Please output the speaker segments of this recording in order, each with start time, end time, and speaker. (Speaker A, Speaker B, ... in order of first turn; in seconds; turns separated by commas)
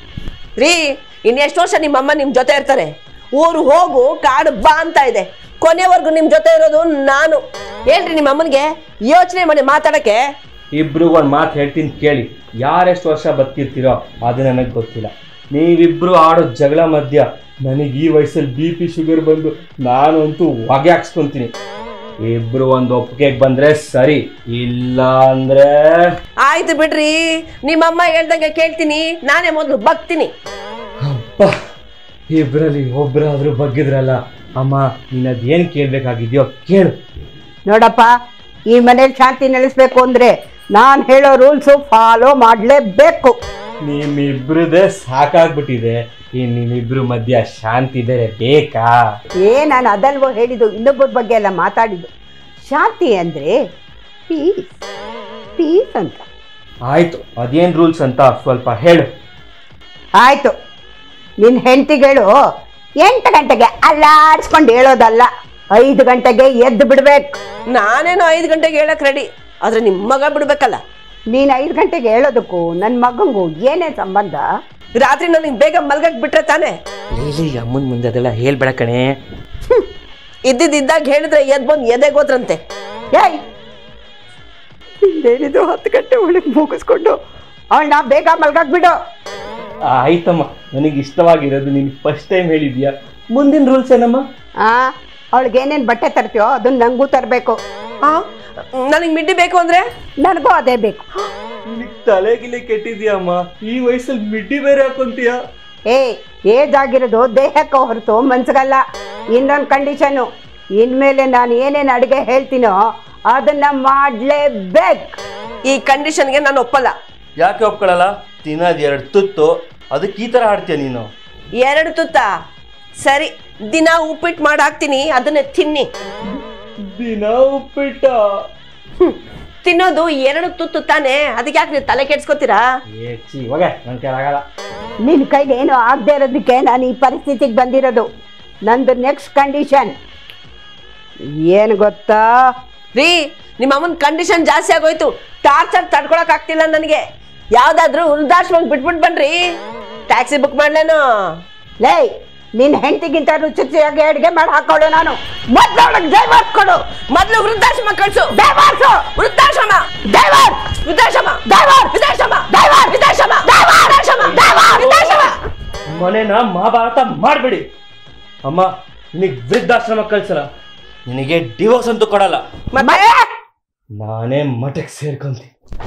Speaker A: 0.6-10.2, Speaker B: 10.7-21.5, Speaker B: 22.2-26.1, Speaker A: 26.4-30.3, Speaker B: 31.0-31.5, Speaker B: 32.3-36.9, Speaker C: 37.7-38.1, Speaker C: 38.7-43.4, Speaker B: 43.8-49.0, Speaker C: 49.4-52.1, Speaker C: 52.6-53.5, Speaker C: 54.3-54.7, Speaker C: 55.5-56.2, Speaker B: 56.9-59.0, Speaker C: 60.2-60.5, Speaker C: 61.4-62.3, Speaker C: 63.0-67.3, Speaker A: 67.7-70.8, Speaker C: 71.3-74.4, Speaker A: 75.0-76.8, Speaker B: 77.1-79.2, Speaker A: 80.5-82.6, Speaker C: 83.1-83.4, Speaker C: 85.1-87.1, Speaker C: 87.7-88.9, Speaker B: 89.8-94.2, Speaker C: 94.6-97.5, Speaker A: 98.8-99.8, Speaker C: 100.2-101.0, Speaker B: 101.7-105.4, Speaker C: 105.9-108.8, Speaker C: 109.3-110.2, Speaker C: 110.8-112.8, Speaker C: 113.3-115.2, Speaker A: 115.7-116.9, Speaker B: 117.4-121.1, Speaker A: 121.6-122.3, Speaker A: 123.0-125.9, Speaker B: 126.8-128.2, Speaker A: 129.0-132.6, Speaker B: 132.9-134.4, Speaker C: 135.0-138.1, Speaker C: 138.7-139.9, Speaker C: 141.5-142.3, Speaker A: 142.9-147.0, Speaker A: 147.5-149.4, Speaker A: 150.1-151.3, Speaker C: 151.8-156.8, Speaker A: 157.1-158.3, Speaker C: 158.3-159.0, Speaker A: 159.1-159.9, Speaker C: 160.1-160.6, Speaker A: 160.7-165.4, Speaker C: 161.5-161.9, Speaker C: 162.5-162.9, Speaker C: 163.5-163.9, Speaker B: 164.2-165.3, Speaker B: 165.8-167.7, Speaker B: 168.4-170.4, Speaker B: 171.1-172.4, Speaker A: 172.7-173.0, Speaker C: 172.8-173.2, Speaker B: 173.9-175.5